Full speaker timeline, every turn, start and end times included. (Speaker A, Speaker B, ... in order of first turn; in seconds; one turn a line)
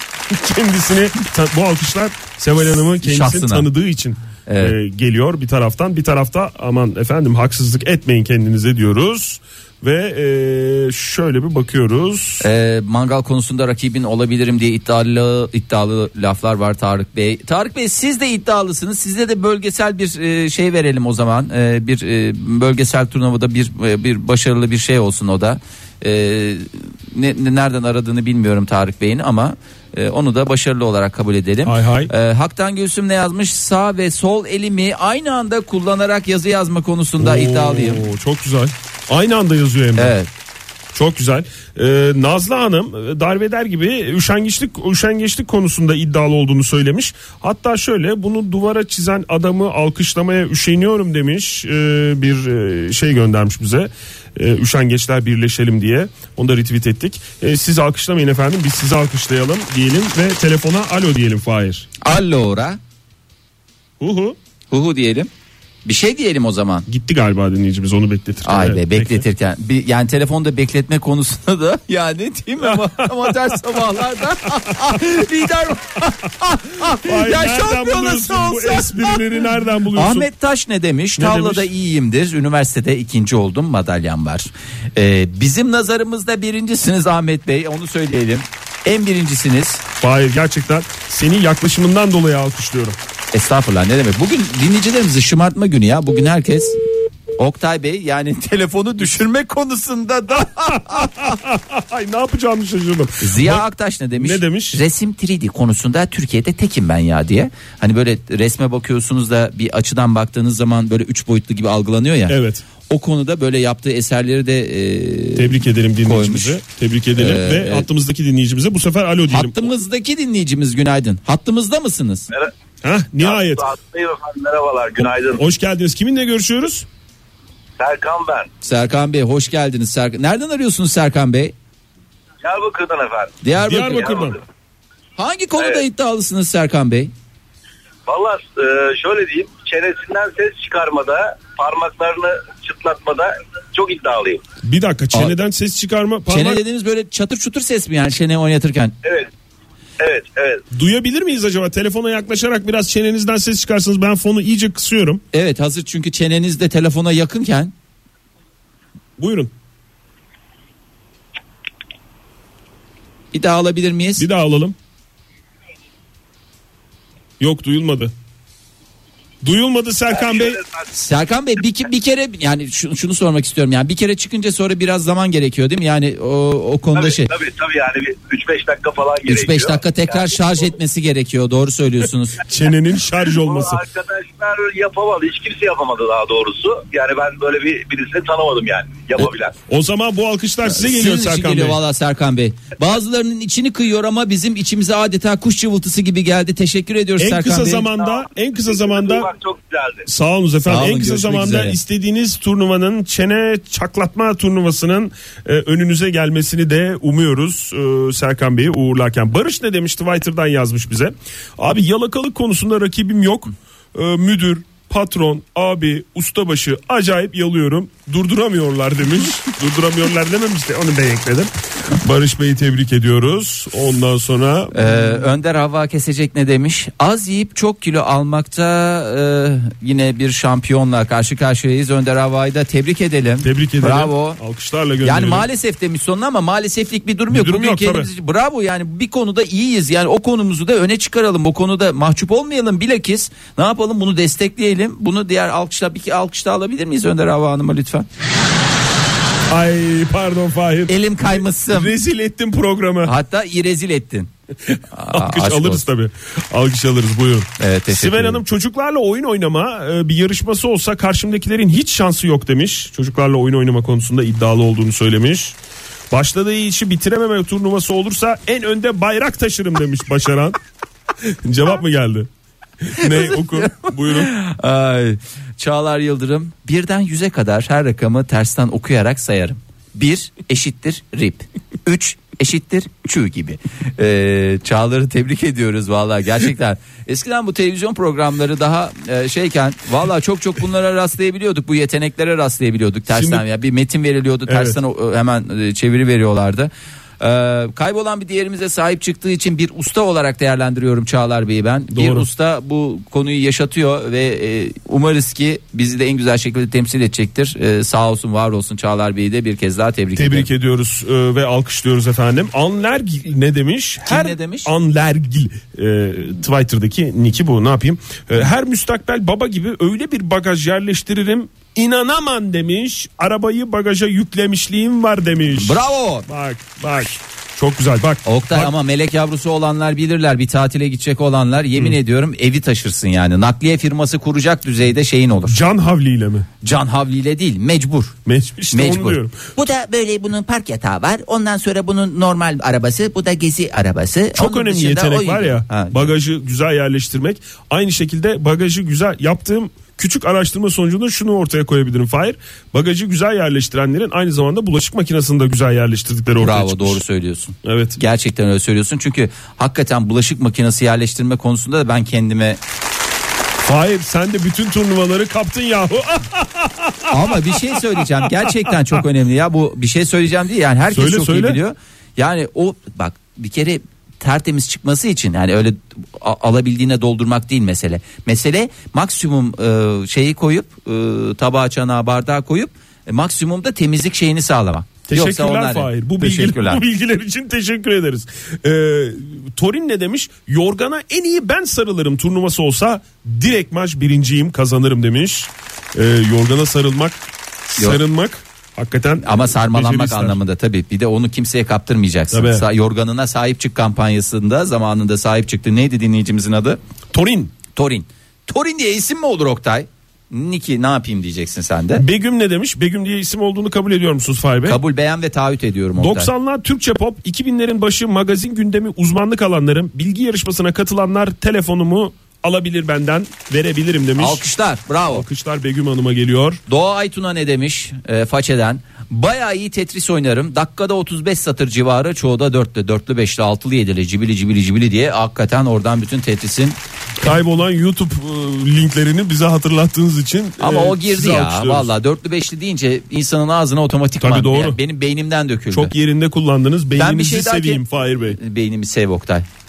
Speaker A: 0.3-12.5
Speaker B: 2.6-3.7
Speaker B: 4.5-4.8
Speaker B: 12.4-38.1
Speaker A: 31.6-32.1
Speaker A: 37.2-40.1
Speaker B: 40.0-40.3
Speaker A: 40.9-61.9
Speaker B: 62.0-62.8
Speaker A: 64.0-64.4
Speaker B: 64.7-65.3
Speaker B: 65.8-66.9
Speaker A: 66.9-69.2
Speaker B: 68.5-79.2
Speaker A: 72.6-73.6
Speaker A: 74.7-75.0
Speaker A: 76.8-80.3
Speaker B: 79.9-89.8
Speaker A: 81.2-81.7
Speaker A: 90.0-93.0
Speaker B: 93.3-96.8
Speaker B: 97.4-101.3
Speaker A: 100.4-103.7
Speaker B: 103.2-116.6
Speaker A: 104.2-104.8
Speaker A: 112.3-112.6
Speaker A: 115.4-119.7
Speaker B: 117.2-117.9
Speaker B: 119.3-122.3
Speaker A: 122.8-123.7
Speaker C: 123.2-125.4
Speaker A: 125.4-126.9
Speaker C: 127.8-128.5
Speaker B: 128.6-131.6
Speaker C: 132.4-133.4
Speaker B: 133.4-134.2
Speaker A: 133.6-134.4
Speaker C: 133.9-134.4
Speaker B: 135.2-137.1
Speaker C: 138.1-144.4
Speaker A: 144.6-146.6
Speaker B: 146.3-148.9
Speaker C: 149.0-149.3
Speaker C: 150.0-150.7
Speaker A: 150.7-155.2
Speaker B: 155.3-157.7
Speaker A: 159.2-159.5
Speaker B: 163.3-164.3
Speaker A: 164.2-164.8
Speaker A: 167.4-168.1
Speaker A: 169.4-170.6
Speaker C: 170.1-170.9
Speaker B: 170.9-177.3
Speaker C: 176.9-180.7
Speaker B: 179.3-182.4
Speaker A: 182.5-183.8
Speaker C: 183.2-189.6
Speaker A: 189.7-191.8
Speaker B: 190.7-197.9
Speaker A: 197.2-199.3
Speaker C: 198.0-200.1
Speaker A: 200.1-225.3
Speaker B: 200.7-201.8
Speaker B: 224.7-234.4
Speaker A: 233.4-235.5
Speaker B: 235.0-248.1
Speaker A: 237.3-238.1
Speaker A: 249.5-253.1
Speaker B: 250.9-251.9
Speaker B: 253.0-254.3
Speaker A: 254.7-265.6
Speaker B: 254.9-255.8
Speaker B: 257.6-258.4
Speaker A: 266.1-270.6
Speaker A: 271.2-272.3
Speaker A: 272.8-274.3
Speaker B: 273.0-310.5
Speaker A: 293.1-293.4
Speaker A: 294.5-294.8
Speaker A: 301.9-302.3
Speaker A: 310.2-328.7
Speaker B: 314.1-314.7
Speaker B: 325.5-326.3
Speaker B: 328.3-335.6
Speaker A: 335.5-336.5
Speaker B: 336.6-338.1
Speaker A: 338.3-339.4
Speaker B: 338.7-346.1
Speaker A: 344.4-357.0
Speaker B: 356.4-362.6
Speaker A: 357.6-358.0
Speaker A: 363.6-369.0
Speaker B: 367.1-386.8
Speaker A: 370.9-371.6
Speaker A: 385.1-400.4
Speaker B: 399.2-406.8
Speaker A: 402.3-402.7
Speaker A: 407.1-407.5
Speaker B: 407.7-412.0
Speaker A: 412.0-414.8
Speaker B: 414.6-416.3
Speaker A: 416.0-424.4
Speaker B: 424.2-425.3
Speaker A: 425.1-426.6
Speaker B: 426.7-436.8
Speaker A: 437.2-441.9
Speaker B: 440.6-445.9
Speaker A: 444.2-444.8
Speaker A: 445.7-448.4
Speaker B: 447.0-449.5